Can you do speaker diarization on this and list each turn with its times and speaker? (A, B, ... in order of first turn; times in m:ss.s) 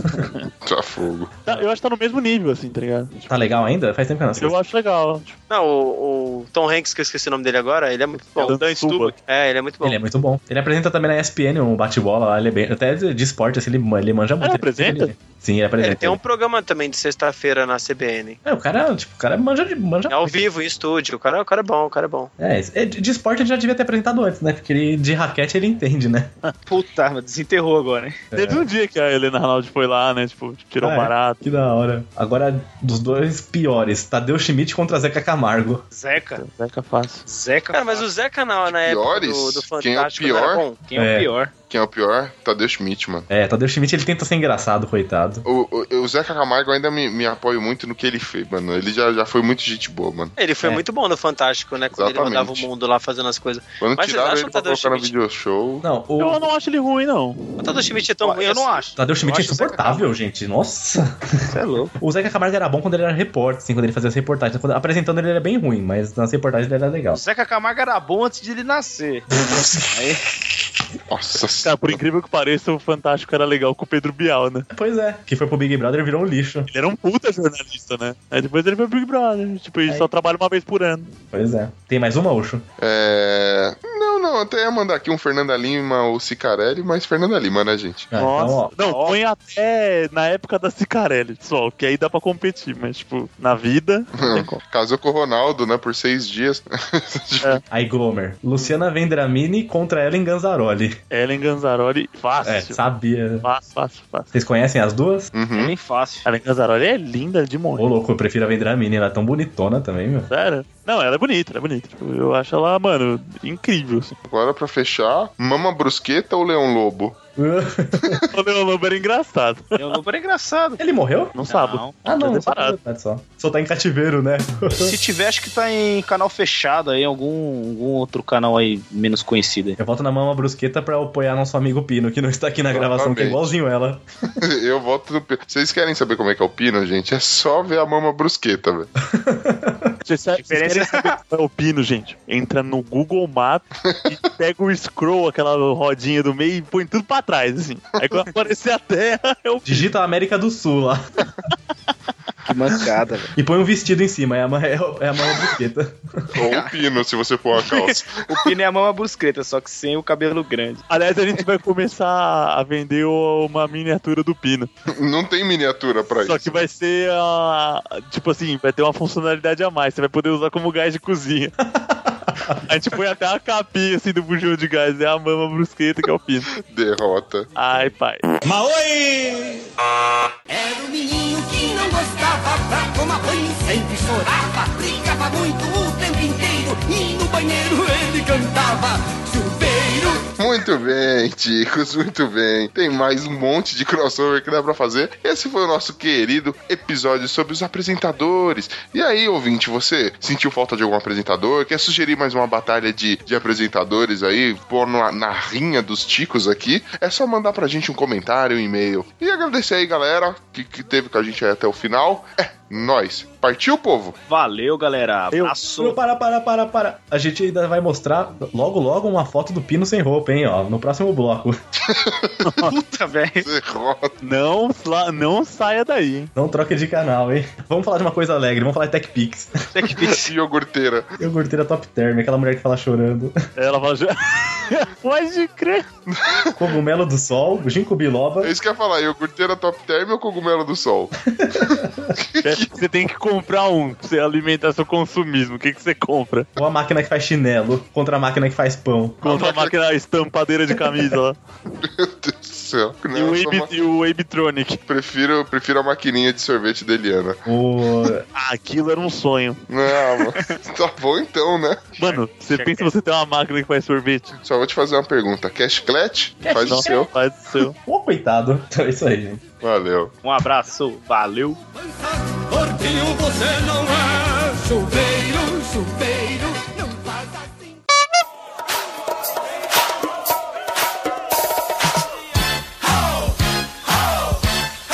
0:00.1-0:00.5 A
0:00.6-0:01.3 B
0:01.5-0:03.4 A
0:03.3-0:04.6 C
0:04.4-0:05.4 A
0:05.5-0:10.0 D
0:08.4-0:09.1 A
0:09.8-0:16.2 C
0:14.4-0:15.1 A
0:15.8-0:18.4 D
0:18.4-0:20.5 C
0:20.1-0:22.3 D
0:22.4-0:26.3 C
0:26.7-0:28.2 E
0:28.3-0:28.7 C
0:28.4-0:31.4 A
0:30.8-0:35.8 C
0:35.9-0:36.4 E
0:36.4-0:37.2 A
0:37.3-0:38.1 E
0:37.7-0:40.8 D
0:38.7-0:40.6 B
0:40.8-0:41.5 E
0:41.0-0:41.3 C
0:41.6-0:43.3 B
0:43.3-0:45.4 C
0:45.5-0:50.4 B
0:50.4-0:55.1 D
0:51.9-0:52.7 B
0:53.8-0:55.8 B
0:55.8-0:56.4 C
0:56.2-0:57.8 A
0:57.6-0:58.8 D
0:58.2-1:00.0 E
0:59.0-1:01.5 C
1:01.5-1:01.9 E
1:02.0-1:07.2 C
1:07.1-1:10.2 E
1:09.4-1:10.1 C
1:11.1-1:12.0 B
1:11.6-1:14.7 A
1:14.7-1:16.7 C
1:16.7-1:21.1 A
1:19.9-1:20.1 C
1:21.3-1:22.6 C
1:22.8-1:28.1 B
1:28.1-1:28.7 C
1:28.2-1:34.6 A
1:28.8-1:29.2 E
1:34.2-1:37.6 B
1:37.7-1:41.0 C
1:41.1-1:42.8 A
1:42.4-1:43.5 C
1:43.4-1:44.3 A
1:44.3-1:45.3 C
1:45.3-1:45.7 B
1:45.5-1:46.3 E
1:46.3-1:47.9 A
1:47.8-1:50.3 C
1:50.3-1:54.2 A
1:54.3-1:57.2 B
1:57.4-1:58.2 C
1:58.3-2:00.0 A
1:59.8-2:00.8 E
2:00.8-2:01.4 C
2:01.4-2:02.8 A
2:01.5-2:02.0 E
2:02.0-2:05.0 C
2:04.8-2:09.8 E
2:09.8-2:14.0 C
2:12.7-2:13.4 B
2:14.4-2:18.9 B
2:19.1-2:20.0 C
2:20.1-2:29.9 A
2:20.4-2:21.2 E
2:23.9-2:24.1 B
2:29.7-2:31.0 C
2:32.4-2:33.3 E
2:33.4-2:36.4 C
2:36.4-2:38.5 B
2:36.4-2:36.8 E
2:37.6-2:40.8 E
2:40.9-2:44.7 A
2:44.9-2:46.6 B
2:46.2-2:51.6 A
2:51.6-2:52.6 C
2:52.7-2:56.5 A
2:56.7-2:57.5 B
2:57.6-2:58.3 A
2:58.4-2:59.7 F
3:00.5-3:10.3 F
3:10.4-3:34.2 B
3:34.3-3:36.0 E
3:35.8-3:41.6 C
3:41.8-3:42.6 B
3:42.4-3:42.7 A
3:42.6-3:43.5 E
3:43.4-3:44.2 B
3:44.2-3:46.3 A
3:46.4-3:49.6 C
3:49.7-3:50.3 E
3:50.0-3:51.2 B
3:51.2-3:53.4 C
3:53.6-3:55.9 A
3:56.1-3:56.6 B
3:56.6-3:58.5 C
3:58.4-4:02.7 B
4:01.3-4:02.1 C
4:02.4-4:06.5 A
4:06.6-4:09.3 C
4:09.2-4:11.4 A
4:09.2-4:09.7 B
4:11.8-4:13.7 B
4:13.1-4:14.8 A
4:14.9-4:17.4 B
4:17.5-4:18.2 C
4:18.4-4:19.6 A
4:19.7-4:21.9 B
4:22.0-4:24.3 A
4:22.0-4:22.9 E
4:24.4-4:27.1 B
4:26.4-4:27.1 C
4:26.6-4:27.8 A
4:27.6-4:29.4 C
4:29.6-4:30.2 B
4:30.2-4:31.6 E
4:32.3-4:37.2 F